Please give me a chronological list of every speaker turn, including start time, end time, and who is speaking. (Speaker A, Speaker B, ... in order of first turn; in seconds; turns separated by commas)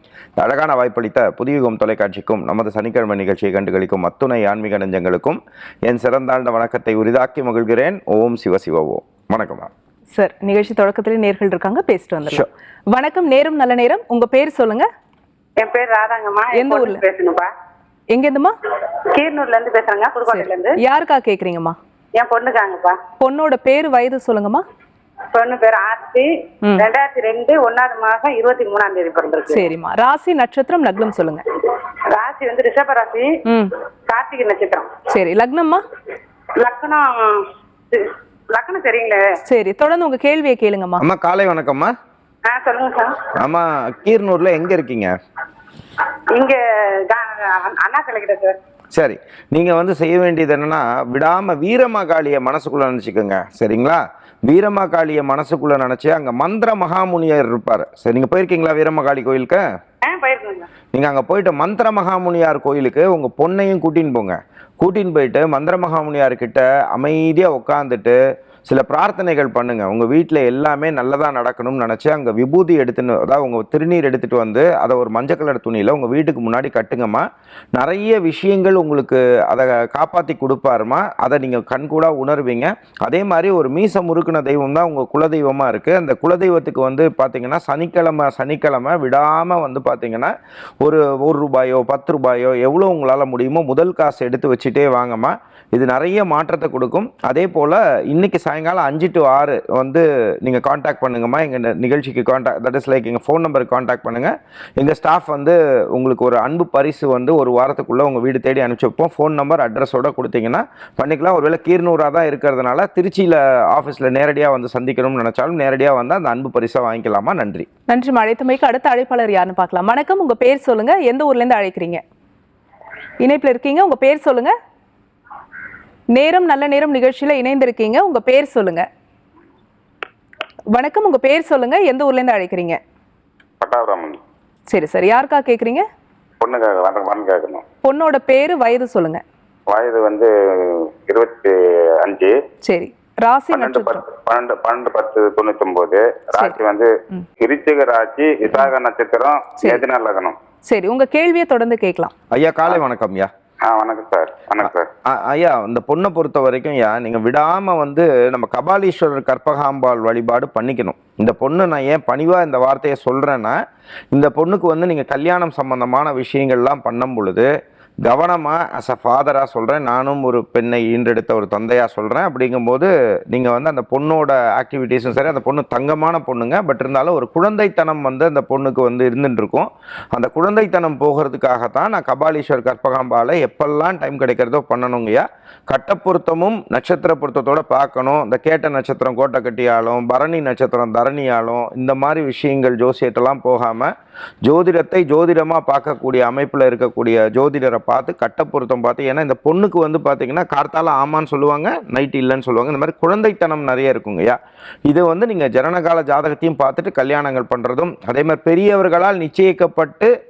Speaker A: 0.4-9.7, Speaker B: 10.1-14.9, Speaker C: 15.6-17.5, Speaker B: 16.5-17.0, Speaker B: 18.1-18.5, Speaker C: 19.1-20.8, Speaker B: 20.3-21.8, Speaker C: 22.2-23.0, Speaker B: 23.2-24.6, Speaker C: 25.3-29.6, Speaker B: 26.6-26.9, Speaker B: 29.5-31.4, Speaker C: 32.1-33.3, Speaker B: 33.5-33.7, Speaker C: 34.1-35.0, Speaker B: 35.1-35.8, Speaker C: 36.6-39.3, Speaker B: 39.4-41.0, Speaker A: 41.0-41.9, Speaker C: 42.4-43.3, Speaker A: 43.4-45.1, Speaker C: 46.3-48.6, Speaker A: 48.9-59.6, Speaker C: 60.0-60.7, Speaker A: 60.9-117.7, Speaker B: 117.9-122.0, Speaker B: 123.2-124.5, Speaker B: 126.1-128.8, Speaker B: 130.7-132.8, Speaker D: 133.6-134.2, Speaker B: 134.7-135.8, Speaker D: 136.4-137.6, Speaker B: 137.8-139.2, Speaker D: 139.7-142.3, Speaker B: 142.6-144.0, Speaker D: 143.5-146.9, Speaker D: 147.4-150.4, Speaker B: 150.6-152.1, Speaker A: 152.3-153.3, Speaker D: 153.6-154.9, Speaker A: 155.0-163.6, Speaker A: 164.1-167.5, Speaker A: 168.0-193.9, Speaker A: 194.4-210.1